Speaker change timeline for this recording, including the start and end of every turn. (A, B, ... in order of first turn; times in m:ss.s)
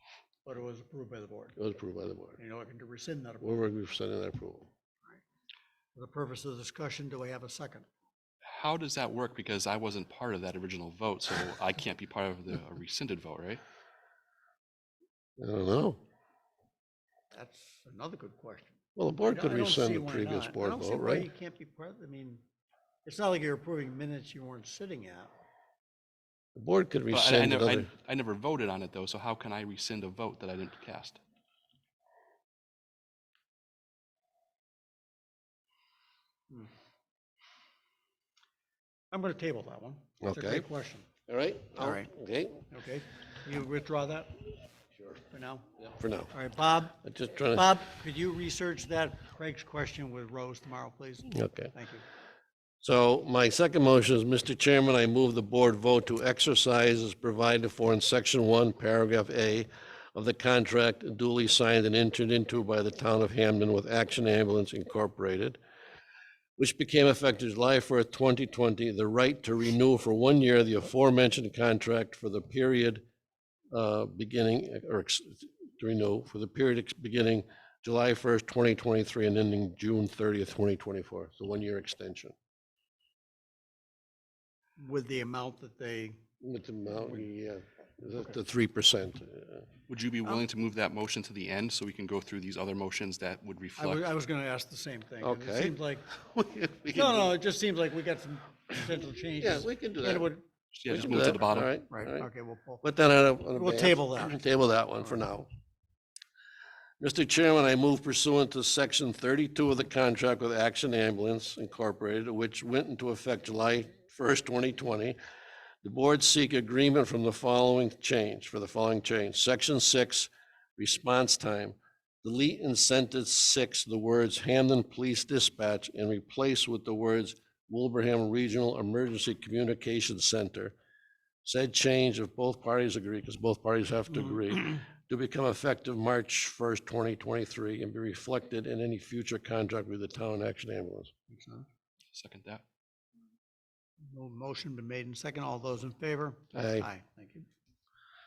0:00.4-0:01.6 A
0:01.6-0:02.4 B
0:02.4-0:03.7 A
0:03.4-0:04.7 B
0:05.9-0:07.9 A
0:08.4-0:13.6 C
0:15.4-0:16.0 B
0:17.3-0:18.8 A
0:19.0-0:21.3 B
0:19.3-0:22.4 A
0:23.0-0:25.3 A
0:26.6-0:27.9 B
0:27.1-0:31.2 C
0:39.1-0:41.1 A
0:40.2-0:40.6 B
0:41.3-0:42.7 B
0:41.8-0:42.1 A
0:42.7-0:44.4 A
0:45.1-0:45.7 A
0:46.0-0:46.3 B
0:46.3-0:47.0 A
0:47.0-0:47.8 B
0:47.5-0:52.0 A
0:51.3-0:51.7 B
0:52.8-1:05.6 B
1:06.6-1:13.0 B
1:13.7-1:22.3 B
1:24.8-1:26.2 A
1:26.4-1:29.7 B
1:29.9-1:34.0 C
1:33.8-1:36.1 A
1:35.2-1:37.3 B
1:36.9-1:41.1 A
1:39.4-1:40.3 B
1:40.8-1:41.7 C
1:40.9-1:42.3 B
1:41.9-1:42.8 A
1:42.8-1:45.5 B
1:43.5-1:44.4 A
1:47.0-1:55.2 B
1:55.8-2:10.8 B
2:11.4-2:21.1 B
2:21.3-2:21.7 A
2:22.1-2:22.6 C
2:24.0-2:27.5 A
2:26.5-2:26.9 B